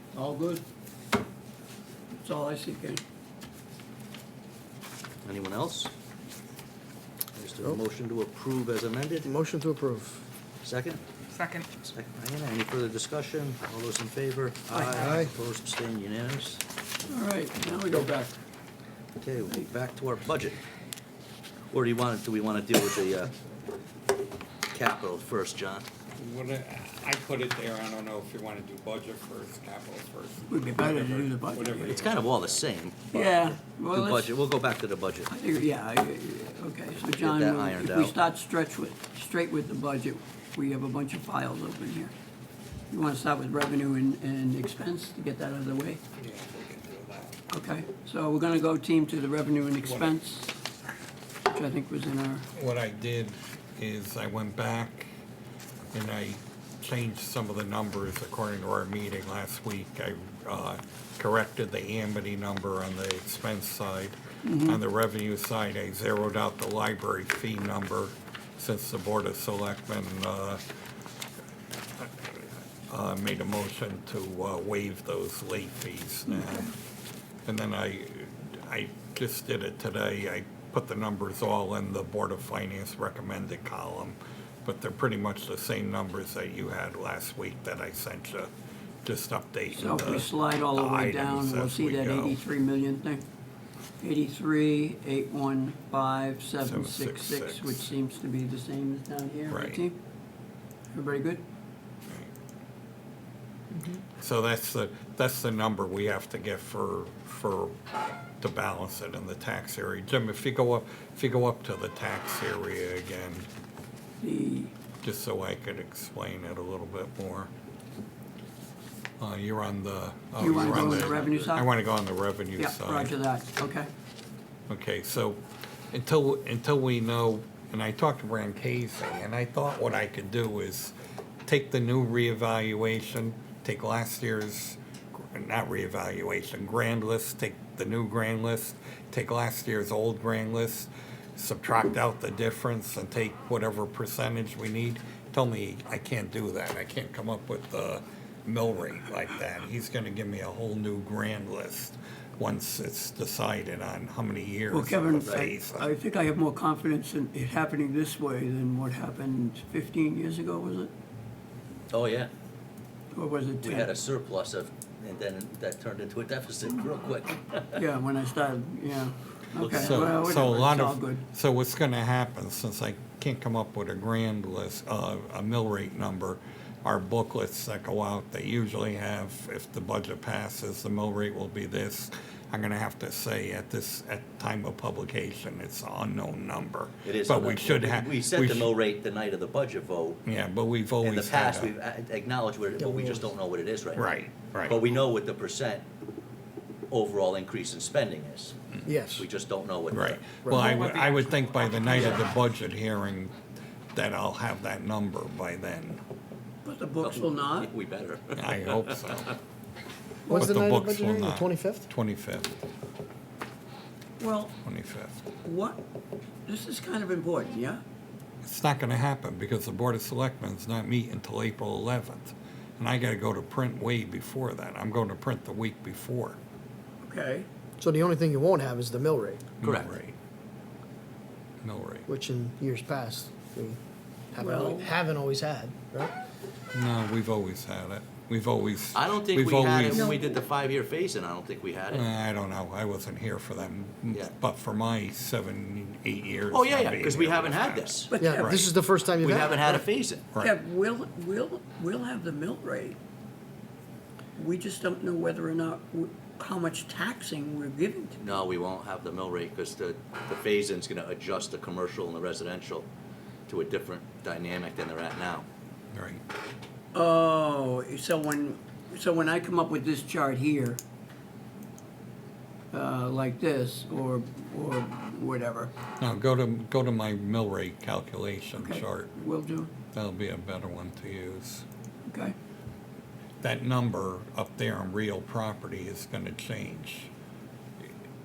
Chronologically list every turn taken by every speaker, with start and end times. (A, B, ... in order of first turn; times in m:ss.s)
0:00.1-0:00.6 A
0:02.2-0:03.0 A
0:05.2-0:05.9 B
0:07.4-0:09.3 B
0:09.2-0:10.2 C
0:10.6-0:11.0 B
0:11.3-0:11.6 D
0:11.8-0:16.6 B
0:14.8-0:15.3 C
0:17.1-0:18.3 A
0:19.2-0:20.6 B
0:21.7-0:23.3 B
0:24.7-0:25.8 B
0:26.2-0:32.6 E
0:30.5-0:32.0 A
0:31.9-0:35.3 B
0:33.1-0:34.4 A
0:35.3-0:42.1 A
0:37.2-0:38.1 B
0:42.9-0:46.0 A
0:46.2-0:47.4 E
0:47.5-0:50.6 A
0:49.8-0:50.1 E
0:51.5-0:52.5 A
0:52.5-0:55.1 E
0:55.9-1:10.6 E
1:04.4-1:04.8 A
1:12.0-1:12.3 E
1:12.9-1:16.8 E
1:17.4-1:28.5 E
1:29.0-1:32.4 E
1:29.7-1:33.2 A
1:34.0-1:40.0 A
1:36.6-1:37.9 E
1:39.5-1:39.8 E
1:40.9-1:41.4 A
1:44.0-1:47.8 E
1:48.4-1:53.4 E
1:54.2-1:54.7 A
1:55.0-1:57.5 E
1:59.2-2:03.2 E
2:00.4-2:01.5 B
2:00.4-2:01.7 A
2:02.6-2:03.9 A
2:04.7-2:05.4 E
2:05.9-2:10.9 E
2:11.5-2:35.9 E
2:34.7-2:40.9 A
2:41.9-2:42.3 B
2:43.1-2:43.9 A
2:43.6-2:47.8 B
2:47.7-2:51.2 A
2:49.6-2:50.1 B
2:49.7-3:08.8 E
3:07.0-3:10.2 B
3:10.2-3:11.8 E
3:11.0-3:14.1 B
3:12.8-3:13.3 C
3:13.9-3:14.8 E
3:14.7-3:15.8 B
3:16.9-3:18.6 B
3:18.9-3:19.3 C
3:19.2-3:20.4 B
3:19.9-3:23.3 E
3:20.4-3:20.8 C
3:20.6-3:22.2 D
3:22.0-3:22.2 B
3:23.9-3:26.0 E
3:26.6-3:27.7 A
3:27.0-3:29.2 B
3:28.3-3:29.3 E
3:30.3-3:31.9 C
3:30.3-3:32.6 E
3:34.2-3:34.6 A
3:34.6-3:35.2 E
3:35.4-3:35.8 A
3:36.5-3:37.8 A
3:38.4-3:46.4 E
3:47.0-3:47.5 A
3:47.8-3:49.4 C
3:49.6-3:50.2 E
3:49.6-3:50.0 B
3:51.6-3:52.1 E
3:52.1-3:53.8 C
3:54.3-3:56.1 C
3:54.4-3:54.9 A
3:56.7-4:00.1 E
3:58.9-4:02.1 B
4:00.0-4:00.3 A
4:01.9-4:08.0 E
4:06.5-4:08.1 B
4:08.1-4:08.7 A
4:08.2-4:09.8 C
4:09.2-4:10.3 B
4:10.4-4:13.0 A
4:14.4-4:18.4 A
4:18.2-4:22.9 B
4:23.5-4:25.4 B
4:25.9-4:26.2 E
4:26.9-4:30.8 A
4:32.7-4:35.7 A
4:36.0-4:39.1 E
4:38.6-4:39.7 A
4:39.9-4:41.6 E
4:42.1-4:42.4 A
4:43.4-4:47.1 E